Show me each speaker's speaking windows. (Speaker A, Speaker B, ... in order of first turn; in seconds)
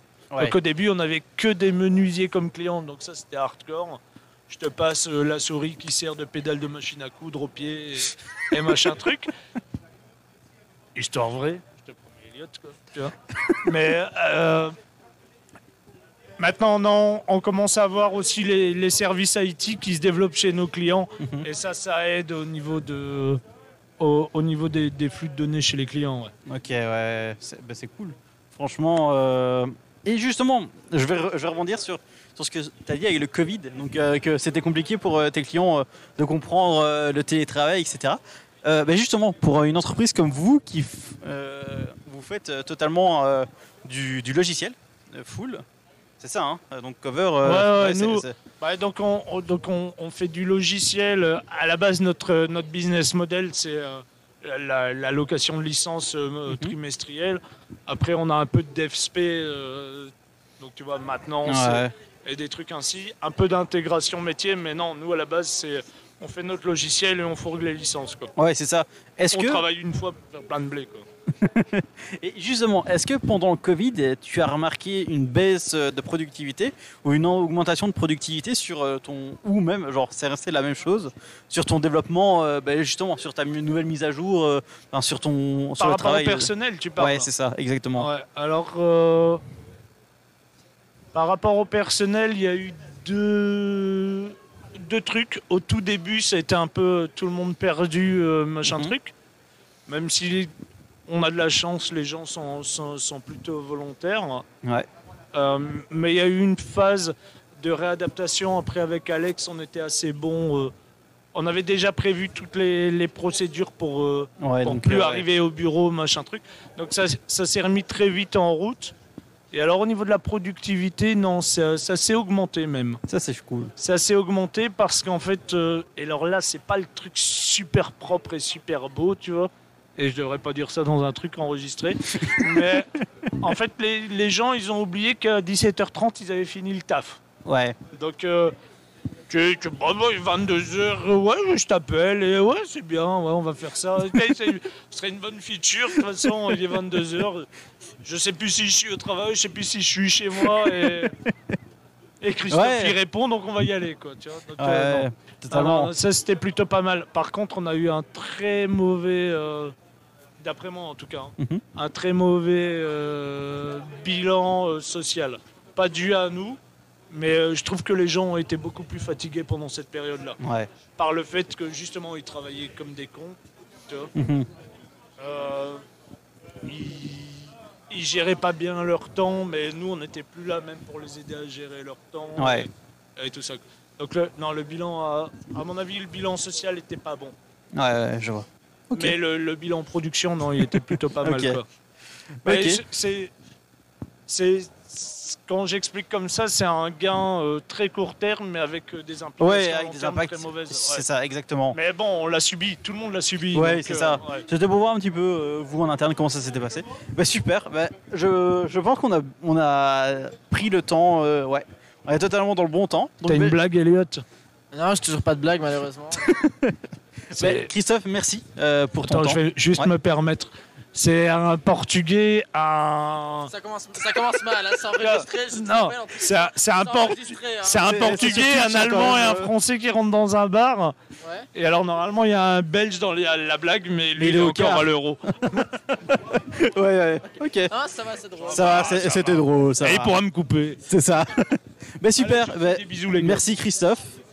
Speaker A: 0.4-9.3, 10.9-14.7, 16.4-23.4, 24.0-26.3, 47.4-68.3, 69.3-71.0, 85.8-87.3, 88.0-89.4, 91.1-99.1, 99.9-100.5, 101.1-104.4, 105.3-110.7, 111.3-118.9, 119.5-123.0, 123.8-137.2, 137.9-138.5, 139.3-147.5, 148.0-151.1, 152.2-159.7, 160.4-166.6, 167.1-170.4, 170.9-173.4, 175.2-175.8, 176.6-187.3, 188.9-191.7, 192.4-193.3, 194.3-201.0, 201.7-204.4, 213.3-214.2, 217.3-217.7, 219.1-223.5, 224.9-230.9, 231.5-235.7, 238.4-240.8, 242.2-243.4
Speaker B: 21.2-21.4, 26.5-45.6, 46.2-48.4, 56.5-56.7, 61.4-61.9, 68.3-69.6, 71.3-88.1, 98.6-98.9, 114.4-115.2, 123.1-123.7, 137.4-137.8, 150.4-151.1, 152.5-152.9, 154.6-155.9, 170.4-170.7, 174.1-174.5, 182.4-182.7, 187.7-189.2, 191.2-191.6, 192.4-192.8, 199.4-201.8, 203.5-213.6, 216.2-216.8, 217.3-219.9, 227.8-229.5, 234.2-234.9, 235.9-237.7, 238.5-240.1, 240.8-244.2
Speaker C: 214.7-216.3, 223.5-227.9, 237.7-238.9